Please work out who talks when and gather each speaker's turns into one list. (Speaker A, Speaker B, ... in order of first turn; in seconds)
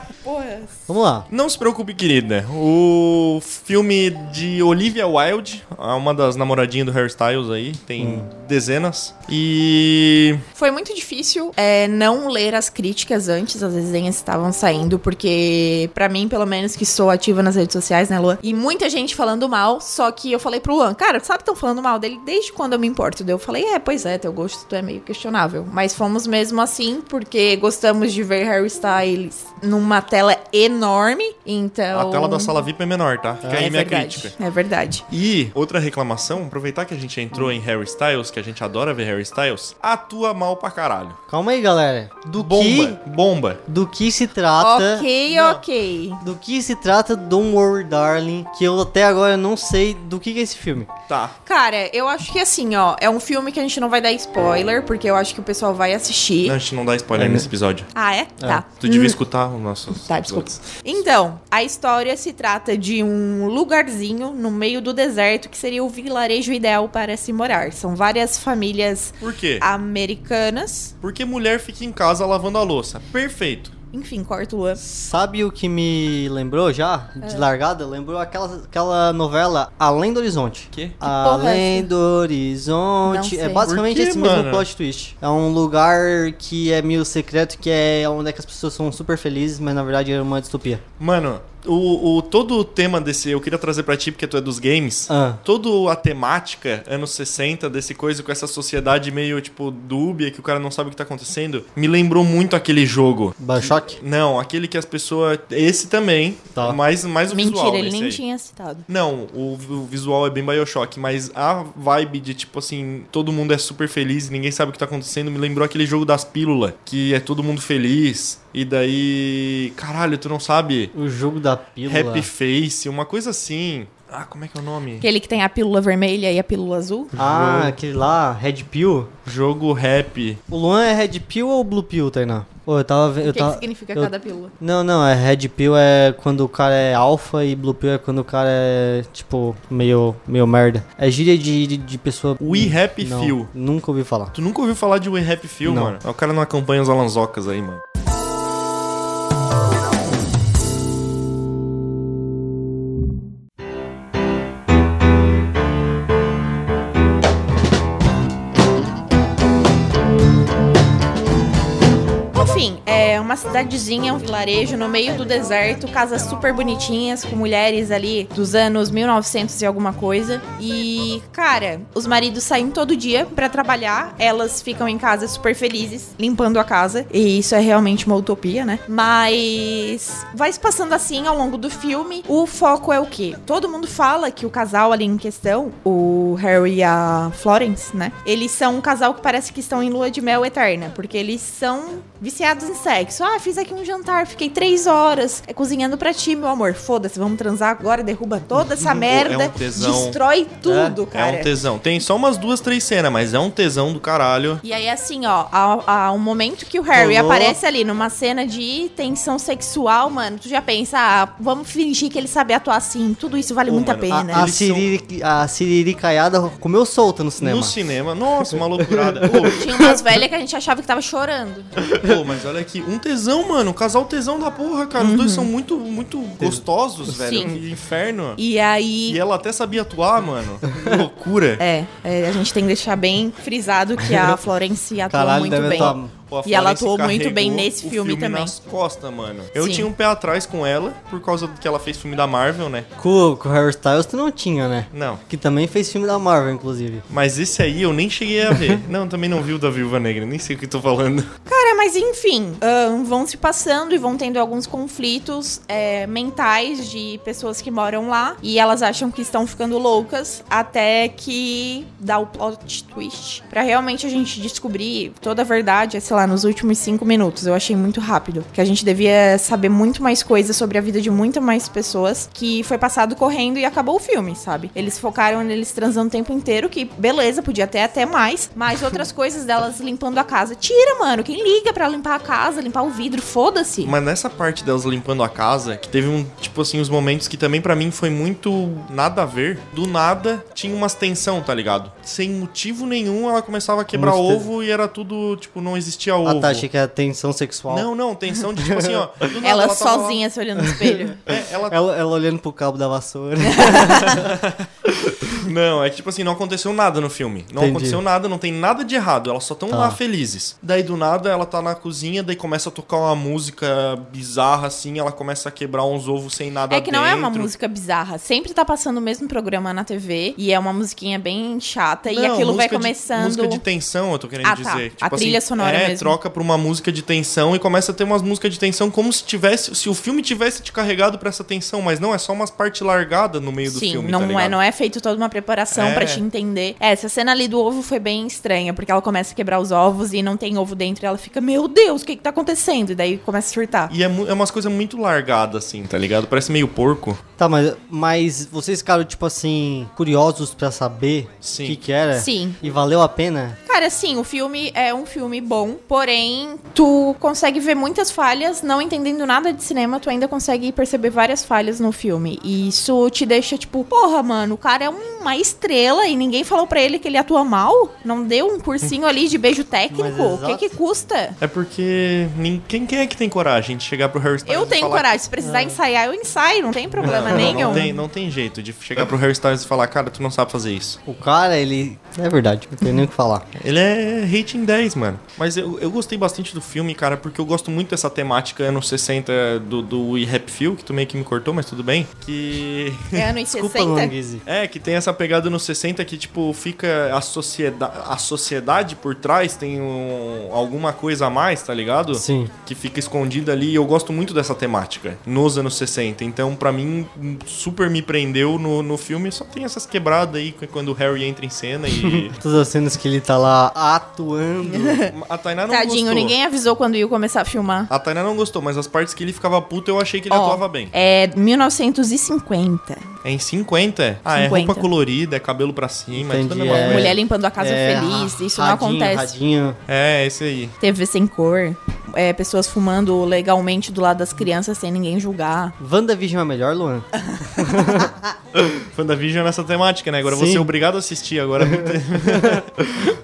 Speaker A: 0.2-0.7, 10.5-32.5, 33.5-35.0, 44.6-46.2, 51.5-56.6, 57.9-59.2, 59.9-70.9, 73.9-74.8, 81.0-81.9, 83.0-83.7, 107.3-108.8, 125.0-127.1, 133.2-134.5, 162.3-201.5, 204.6-214.4, 219.5-221.7, 225.0-225.5, 227.2-227.5, 228.4-229.2, 231.6-238.6, 239.6-239.9, 251.5-283.9, 299.4-301.2, 303.4-304.2, 316.7-323.6, 324.4-326.1, 333.7-343.9, 352.1-352.6, 353.7-371.4, 374.4-377.9, 393.1-394.1, 414.7-415.1, 415.7-417.9, 420.3-423.1, 424.3-424.9, 426.7-429.3, 430.8-435.7
Speaker B: 0.9-1.3, 8.0-8.3, 33.4-33.7, 41.3-43.0, 43.7-45.1, 46.2-50.9, 57.1-57.5, 74.8-90.8, 95.1-95.4, 103.4-104.0, 120.9-122.3, 127.2-129.1, 130.5-144.3, 145.6-146.0, 200.6-201.0, 206.9-207.6, 214.1-217.7, 218.5-220.0, 221.8-222.2, 226.4-227.4, 235.1-236.1, 243.0-247.0, 248.5-248.8, 293.9-294.5, 296.2-297.9, 298.5-299.1, 300.6-301.0, 301.7-304.3, 307.6-308.0, 309.7-310.0, 347.4-353.6, 369.9-370.7, 375.4-375.8, 377.0-377.9, 381.1-383.5, 393.5-394.4, 402.1-402.5, 412.0-415.0, 426.1-429.8, 435.8-438.3, 440.2-440.7, 441.6-442.6
Speaker C: 1.3-10.4, 31.9-34.3, 35.1-41.2, 42.4-43.6, 45.3-45.6, 51.1-51.4, 56.4-57.9, 58.8-60.6, 69.2-69.6, 71.0-73.7, 80.7-81.0, 83.7-84.7, 91.0-108.2, 108.9-120.9, 121.9-125.0, 127.2-127.7, 129.2-130.4, 142.4-143.5, 144.3-147.8, 198.8-200.2, 201.1-204.6, 213.7-214.9, 217.4-219.6, 222.0-228.4, 229.1-231.6, 235.6-242.9, 244.9-245.2, 247.1-251.3, 283.8-296.6, 297.7-300.2, 301.3-301.8, 304.0-317.5, 322.1-334.6, 335.7-336.2, 343.9-347.2, 351.4-351.8, 371.4-375.1, 377.0-381.0, 383.6-393.3, 394.4-412.3, 415.1-416.3, 417.9-420.9, 423.2-427.2, 429.9-430.7, 438.6-443.0